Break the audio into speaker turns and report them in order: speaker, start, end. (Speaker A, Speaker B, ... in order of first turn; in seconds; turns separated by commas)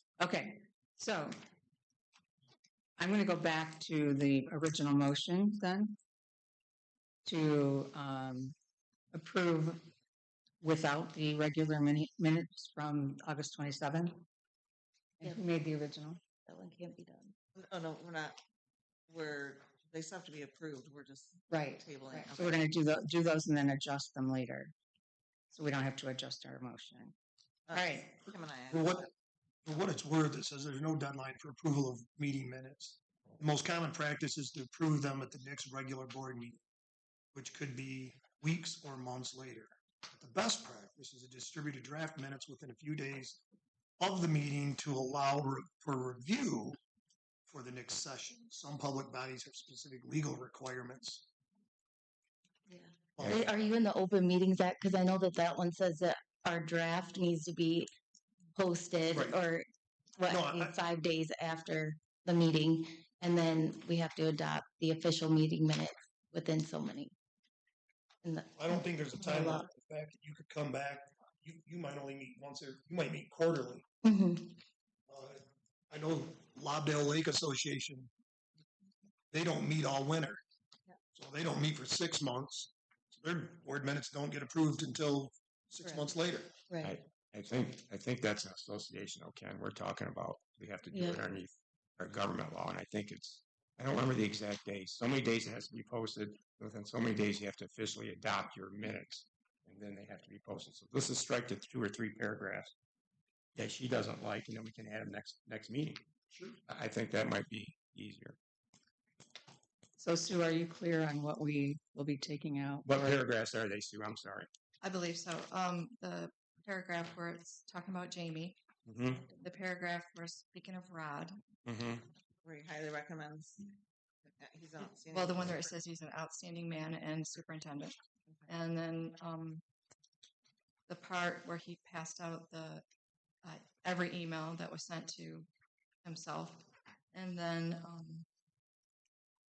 Speaker A: 0.2-1.3, Speaker A: 3.0-6.0, Speaker A: 7.2-8.5, Speaker A: 9.1-9.9, Speaker A: 10.6-14.2, Speaker A: 15.2-16.2, Speaker B: 16.4-17.3, Speaker C: 17.5-18.4, Speaker C: 19.1-22.7, Speaker A: 21.5-21.8, Speaker A: 22.4-24.7, Speaker A: 25.5-27.1, Speaker C: 27.6-29.1, Speaker D: 28.7-29.1, Speaker D: 29.6-36.6, Speaker D: 37.3-43.4, Speaker D: 44.0-46.8, Speaker D: 47.5-51.2, Speaker B: 52.7-57.9, Speaker D: 53.1-53.4, Speaker B: 58.5-67.1, Speaker D: 59.1-59.4, Speaker D: 60.3-60.8, Speaker B: 68.2-69.7, Speaker D: 68.5-73.8, Speaker B: 74.0-74.6, Speaker D: 75.1-78.1, Speaker D: 79.3-80.4, Speaker D: 81.1-86.5, Speaker C: 85.8-86.1, Speaker B: 86.7-86.9, Speaker E: 86.8-102.7, Speaker B: 90.9-91.2, Speaker E: 103.5-106.0, Speaker D: 106.3-106.6, Speaker E: 106.7-108.4, Speaker A: 110.0-112.8, Speaker E: 112.8-114.5, Speaker F: 114.8-118.6, Speaker E: 118.9-119.2, Speaker F: 119.4-121.3, Speaker E: 121.6-122.1, Speaker C: 122.4-125.7, Speaker F: 124.8-127.9, Speaker F: 128.5-129.6, Speaker F: 130.9-132.8, Speaker F: 133.4-135.5, Speaker F: 136.0-138.2